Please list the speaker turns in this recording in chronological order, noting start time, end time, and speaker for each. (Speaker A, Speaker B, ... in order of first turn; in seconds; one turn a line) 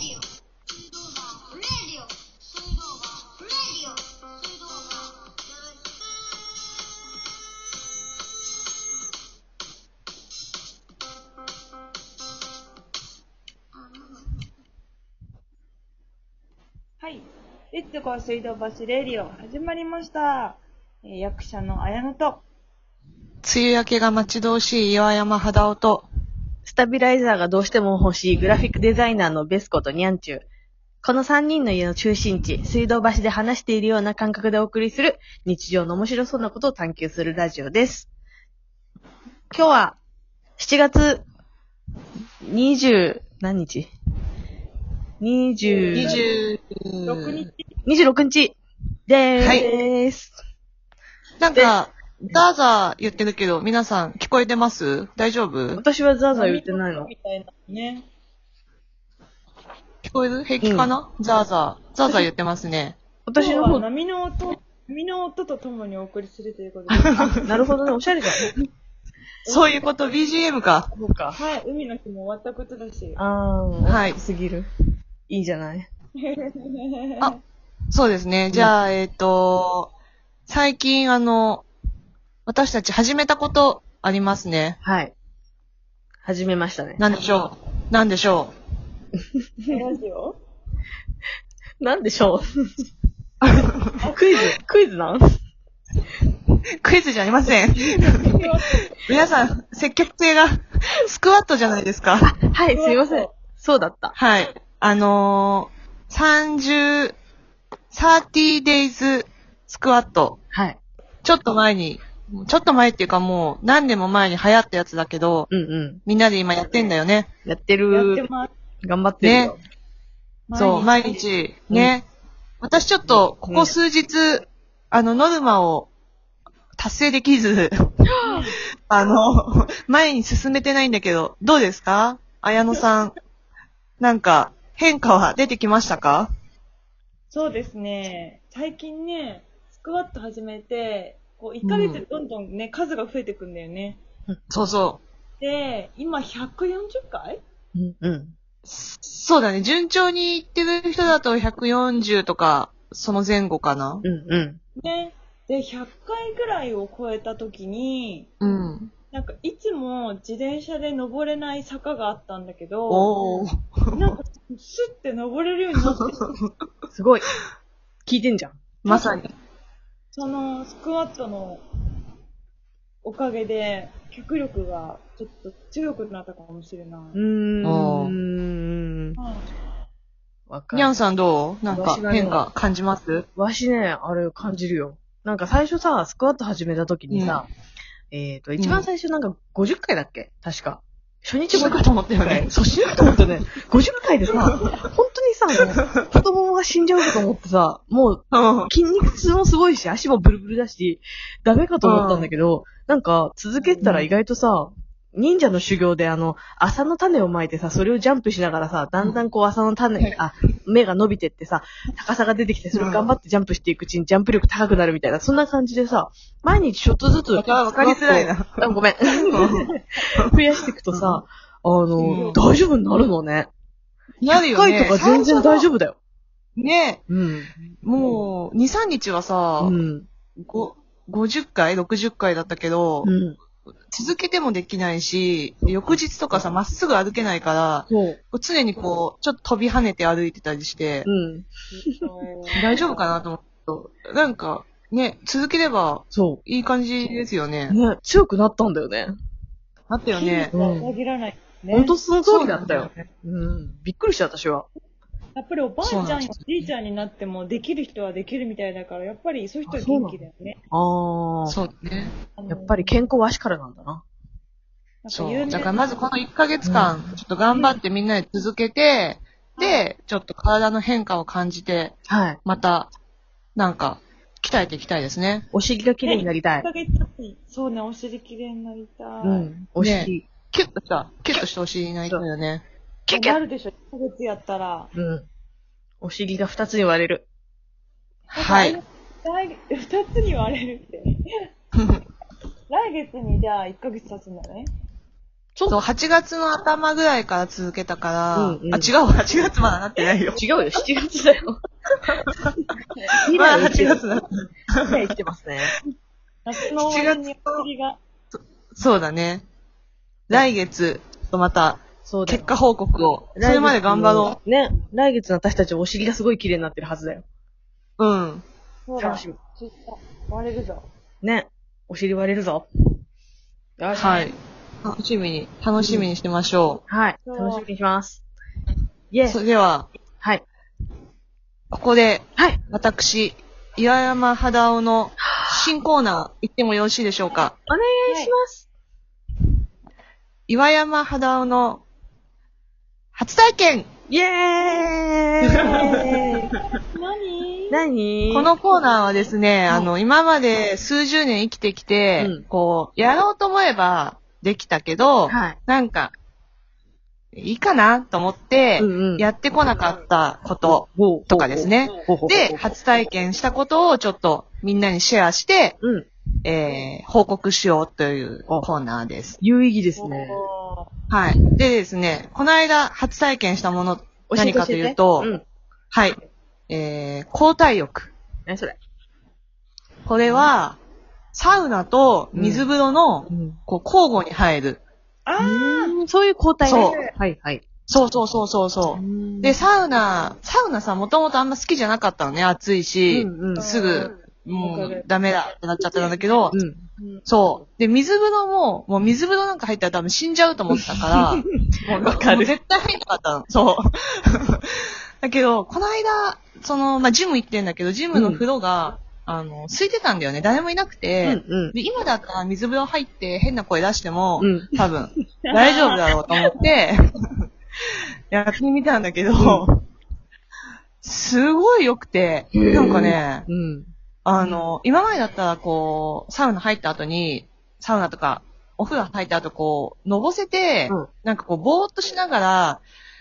Speaker A: 17.0-22.4
Speaker B: 23.4-26.0
Speaker C: 26.6-30.4
Speaker C: 31.0-38.1
Speaker C: 39.5-40.0
Speaker C: 40.6-41.2
Speaker C: 42.4-43.9
Speaker C: 45.2-46.2
Speaker A: 45.6-46.3
Speaker B: 45.9-47.5
Speaker A: 47.0-47.7
Speaker C: 47.8-48.6
Speaker C: 49.1-50.3
Speaker B: 49.4-49.7
Speaker B: 51.4-55.8
Speaker C: 55.8-57.1
Speaker A: 56.3-58.1
Speaker B: 60.0-63.0
Speaker C: 60.6-60.9
Speaker C: 63.2-63.8
Speaker A: 63.4-67.5
Speaker C: 66.9-68.5
Speaker A: 69.4-69.8
Speaker B: 69.5-70.9
Speaker C: 70.9-71.4
Speaker A: 71.3-73.2
Speaker C: 73.2-74.7
Speaker B: 73.8-74.2
Speaker C: 75.3-75.9
Speaker A: 76.2-77.3
Speaker B: 77.9-79.9
Speaker B: 80.5-81.7
Speaker B: 82.5-84.8
Speaker C: 84.8-85.1
Speaker C: 86.2-87.0
Speaker B: 87.0-88.5
Speaker A: 89.7-90.4
Speaker C: 91.8-92.7
Speaker B: 93.4-93.9
Speaker A: 94.0-94.5
Speaker C: 94.1-95.2
Speaker B: 96.8-98.5
Speaker A: 97.8-98.9
Speaker B: 99.0-102.3
Speaker C: 102.2-104.2
Speaker A: 102.7-103.3
Speaker B: 104.1-107.1
Speaker B: 107.9-110.4
Speaker C: 110.5-110.8
Speaker B: 111.2-115.5
Speaker C: 115.5-116.0
Speaker B: 116.0-117.3
Speaker C: 117.4-118.3
Speaker A: 117.9-118.5
Speaker C: 118.8-119.6
Speaker B: 119.2-119.5
Speaker A: 120.5-121.2
Speaker B: 120.5-122.0
Speaker B: 122.6-125.9
Speaker C: 123.1-123.7
Speaker B: 126.8-127.7
Speaker A: 128.2-128.6
Speaker B: 128.9-133.1
Speaker B: 134.0-136.3
Speaker A: 137.3-144.0
Speaker B: 141.6-142.0
Speaker B: 144.5-145.0
Speaker A: 145.4-147.4
Speaker C: 147.7-148.3
Speaker B: 148.7-154.0
Speaker C: 154.0-154.6
Speaker A: 154.8-158.3
Speaker B: 158.4-158.9
Speaker A: 159.1-166.2
Speaker B: 162.9-164.1
Speaker B: 165.8-166.5
Speaker C: 166.9-167.3
Speaker C: 168.1-168.6
Speaker B: 168.8-169.3
Speaker A: 168.9-169.2
Speaker A: 170.1-171.6
Speaker A: 173.0-177.2
Speaker C: 177.1-179.2
Speaker B: 177.6-178.2
Speaker A: 179.2-179.4
Speaker C: 180.5-180.9
Speaker B: 180.7-183.2
Speaker C: 181.7-182.4
Speaker C: 183.3-187.5
Speaker B: 187.1-187.4
Speaker C: 188.1-223.5
Speaker B: 188.6-188.9
Speaker B: 191.5-193.3
Speaker B: 194.3-194.7
Speaker B: 195.6-195.9
Speaker B: 198.3-198.7
Speaker B: 201.8-202.3
Speaker A: 203.6-203.9
Speaker B: 203.8-204.1
Speaker B: 212.7-213.1
Speaker B: 217.3-218.7
Speaker B: 219.3-220.3
Speaker B: 220.9-221.2
Speaker A: 222.0-222.4
Speaker B: 222.0-222.4
Speaker B: 224.2-225.7
Speaker C: 224.3-225.9
Speaker B: 226.6-227.0
Speaker C: 227.1-227.5
Speaker B: 227.8-229.8
Speaker C: 229.6-230.1
Speaker B: 230.4-233.1
Speaker C: 233.0-233.4
Speaker B: 233.9-241.1
Speaker C: 235.7-236.5
Speaker C: 237.9-238.2
Speaker C: 241.0-241.5
Speaker A: 241.7-243.0
Speaker B: 242.5-247.8
Speaker C: 246.1-246.4
Speaker C: 247.7-249.1
Speaker B: 249.9-250.5
Speaker A: 250.1-252.0
Speaker C: 250.5-250.9
Speaker C: 251.7-254.7
Speaker B: 252.2-253.1
Speaker A: 255.3-260.6
Speaker B: 255.8-256.7
Speaker C: 259.6-261.6
Speaker B: 261.5-262.1
Speaker A: 262.2-263.0
Speaker C: 262.5-264.0
Speaker A: 265.0-266.1
Speaker B: 265.1-272.9
Speaker C: 266.6-267.1
Speaker A: 267.5-267.8
Speaker A: 269.6-269.9
Speaker C: 272.1-272.4
Speaker B: 273.6-275.4
Speaker C: 275.5-276.6
Speaker A: 276.0-279.5
Speaker C: 279.2-280.3
Speaker B: 279.8-282.6
Speaker C: 283.1-283.4
Speaker A: 283.1-284.9
Speaker C: 284.9-285.2
Speaker C: 286.0-287.2
Speaker A: 288.3-291.5
Speaker B: 288.3-288.8
Speaker A: 292.7-294.7
Speaker C: 295.6-295.8
Speaker B: 295.7-300.4
Speaker C: 298.3-298.9
Speaker C: 300.3-302.1
Speaker B: 302.2-302.5
Speaker A: 302.9-303.2
Speaker C: 303.2-304.0
Speaker B: 303.3-305.1
Speaker C: 304.9-305.7
Speaker A: 306.4-308.0
Speaker B: 306.8-307.6
Speaker B: 308.7-309.4
Speaker B: 310.3-314.4
Speaker C: 312.0-312.6
Speaker C: 313.4-317.2
Speaker B: 318.0-318.4
Speaker A: 318.9-320.8
Speaker C: 319.0-319.4
Speaker C: 321.2-322.6
Speaker C: 323.8-324.3
Speaker B: 323.9-326.8
Speaker C: 325.8-326.1
Speaker C: 326.9-328.2
Speaker A: 327.2-327.6
Speaker C: 329.1-329.4
Speaker B: 329.2-329.9
Speaker B: 331.7-337.6
Speaker C: 335.2-335.7
Speaker C: 337.7-338.6
Speaker A: 338.1-338.3
Speaker B: 340.5-341.8
Speaker B: 343.1-343.9
Speaker C: 344.1-346.4
Speaker A: 345.5-347.9
Speaker C: 347.7-348.5
Speaker B: 348.3-356.1
Speaker A: 348.7-349.3
Speaker C: 352.2-352.4
Speaker C: 355.3-355.6
Speaker B: 357.3-365.8
Speaker C: 358.8-359.3
Speaker C: 360.6-362.7
Speaker C: 365.8-366.1
Speaker B: 366.4-369.4
Speaker C: 369.4-370.4
Speaker A: 370.0-370.9
Speaker B: 371.1-375.3
Speaker C: 374.3-375.4
Speaker B: 375.9-376.2
Speaker B: 376.7-378.1
Speaker C: 378.5-378.8
Speaker B: 380.1-380.8
Speaker B: 381.3-384.8
Speaker C: 382.3-382.7
Speaker C: 383.3-383.6
Speaker A: 385.2-385.9
Speaker C: 385.4-387.6
Speaker B: 386.6-387.0
Speaker A: 386.8-387.1
Speaker B: 387.9-396.6
Speaker C: 388.9-389.6
Speaker C: 393.1-394.1
Speaker A: 393.6-395.1
Speaker C: 396.5-396.9
Speaker A: 397.0-397.2
Speaker B: 397.2-417.4
Speaker C: 401.1-402.5
Speaker C: 408.1-408.4
Speaker C: 411.2-411.7
Speaker C: 414.4-414.7
Speaker A: 415.4-416.5
Speaker B: 418.3-419.8
Speaker C: 419.4-419.6
Speaker B: 421.0-423.4
Speaker C: 422.5-423.9
Speaker B: 424.2-432.8